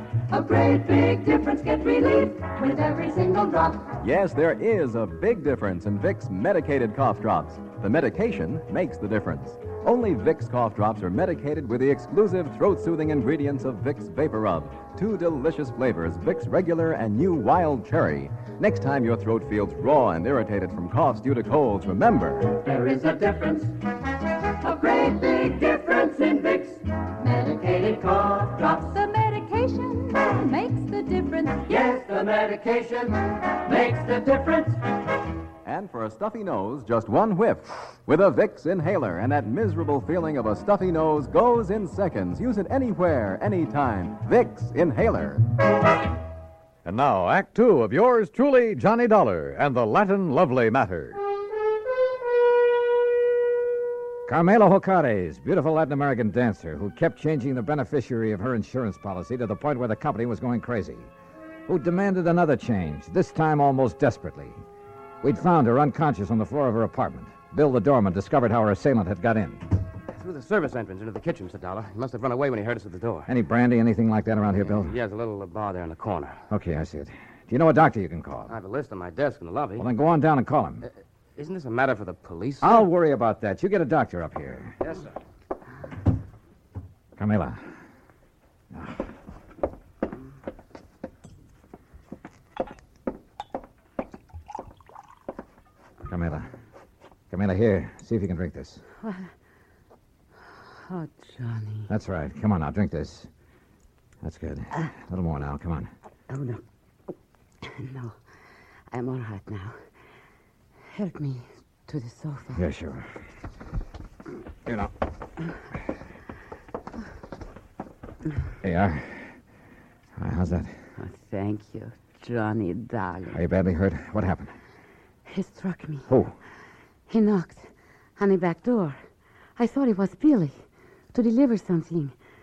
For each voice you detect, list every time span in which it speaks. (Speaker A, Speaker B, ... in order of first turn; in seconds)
Speaker A: 0.3-3.9, 22.5-23.8, 24.6-34.8
Speaker B: 4.0-22.5, 35.6-45.4
Speaker C: 46.8-51.2
Speaker D: 54.2-61.1, 61.7-64.6, 65.2-69.6, 73.2-74.9, 76.5-78.5, 79.8-80.8, 82.6-84.8, 87.2-87.6, 88.7-89.0, 96.0-96.5, 97.3-98.8, 101.9-103.3, 104.2-105.9, 112.5-113.1, 114.7-114.9, 118.6-119.3, 120.2-120.7, 123.3-124.5, 126.1-126.3
Speaker E: 70.1-73.3, 74.6-76.4, 78.5-79.9, 81.3-82.9, 84.8-85.1
Speaker F: 99.0-99.3, 100.8-101.9, 106.3-106.6, 107.6-108.2, 108.9-109.8, 110.9-112.6, 121.0-123.4, 125.2-126.1, 127.1-129.0, 129.6-130.6, 131.1-132.1